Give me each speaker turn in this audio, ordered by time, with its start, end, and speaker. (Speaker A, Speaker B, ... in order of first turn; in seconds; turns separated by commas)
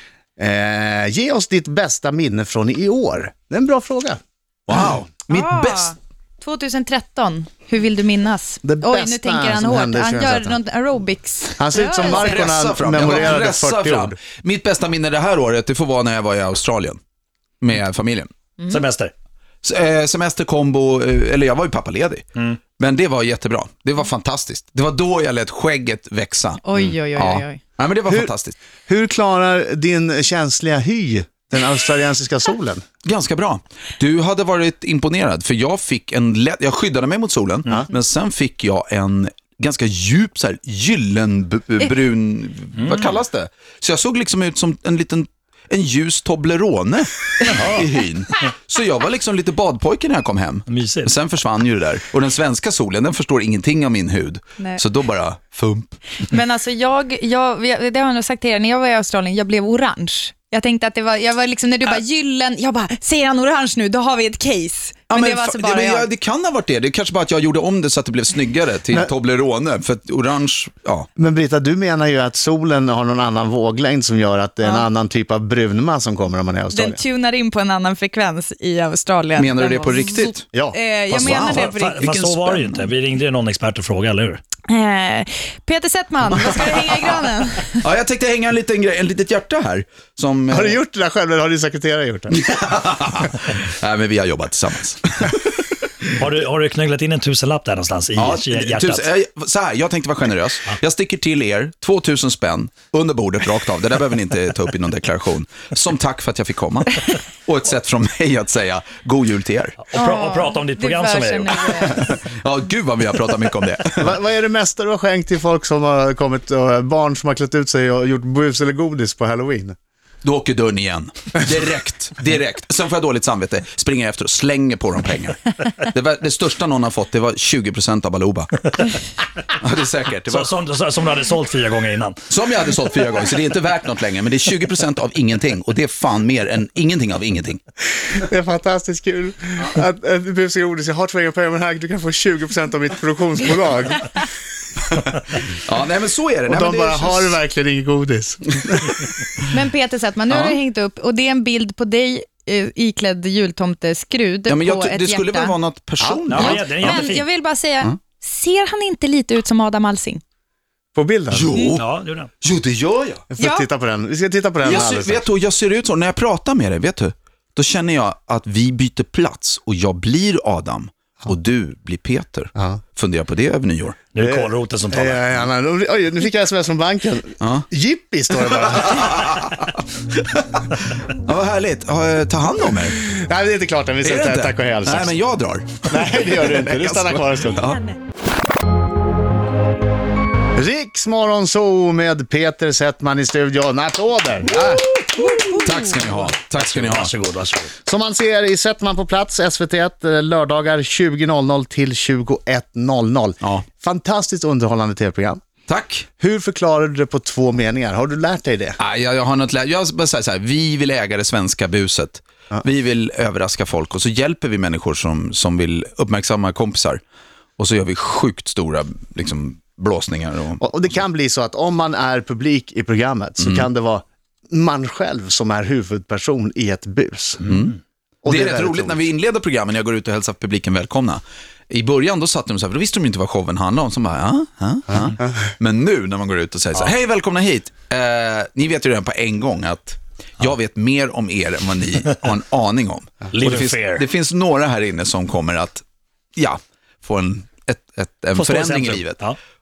Speaker A: 0.4-4.2, Speaker B: 4.7-5.9, Speaker C: 5.3-12.5, Speaker A: 8.6-10.6, Speaker A: 11.6-14.2, Speaker B: 12.0-17.0, Speaker B: 17.6-18.3, Speaker D: 18.7-19.1, Speaker B: 19.6-22.3, Speaker B: 22.8-28.6, Speaker C: 26.6-27.6, Speaker A: 28.9-32.8, Speaker B: 33.0-56.0, Speaker D: 42.8-43.1, Speaker D: 47.5-47.9, Speaker D: 50.7-51.1, Speaker C: 56.2-66.1, Speaker B: 65.1-71.1, Speaker A: 71.2-77.0, Speaker C: 76.7-82.1, Speaker B: 79.3-80.5, Speaker B: 81.1-82.9, Speaker D: 81.2-84.4, Speaker C: 84.7-87.8, Speaker B: 86.3-90.8, Speaker A: 90.5-92.4, Speaker B: 92.3-95.6, Speaker D: 96.1-99.1, Speaker B: 98.2-109.8, Speaker D: 109.8-112.0, Speaker C: 110.0-112.1, Speaker B: 111.9-114.2, Speaker A: 114.0-119.8, Speaker B: 120.2-128.5, Speaker B: 129.5-130.5, Speaker D: 130.3-132.2, Speaker B: 132.3-137.6, Speaker A: 138.1-144.1, Speaker B: 145.5-147.4, Speaker A: 146.5-148.9, Speaker C: 149.5-155.6, Speaker B: 150.3-150.6, Speaker B: 154.5-157.1, Speaker D: 156.3-157.3, Speaker C: 156.3-160.2, Speaker A: 160.9-161.6, Speaker B: 161.3-161.9, Speaker D: 161.8-162.3, Speaker B: 162.4-163.3, Speaker A: 163.3-165.2, Speaker C: 163.4-163.7, Speaker B: 164.6-174.0, Speaker A: 172.6-172.8, Speaker D: 174.1-175.3, Speaker A: 174.2-179.5, Speaker B: 177.4-177.7, Speaker B: 178.5-183.0, Speaker A: 183.1-185.2, Speaker B: 184.0-187.8, Speaker A: 185.9-187.8, Speaker A: 190.6-194.9, Speaker B: 194.7-197.1, Speaker C: 195.2-195.9, Speaker D: 196.5-197.7, Speaker A: 197.9-205.4, Speaker B: 205.7-206.1, Speaker A: 206.2-208.8, Speaker B: 208.8-217.0, Speaker B: 217.6-220.6, Speaker A: 220.6-227.6, Speaker B: 223.4-223.7, Speaker B: 227.4-245.8, Speaker A: 228.2-229.0, Speaker D: 243.3-244.1, Speaker B: 246.4-249.2, Speaker D: 248.4-249.4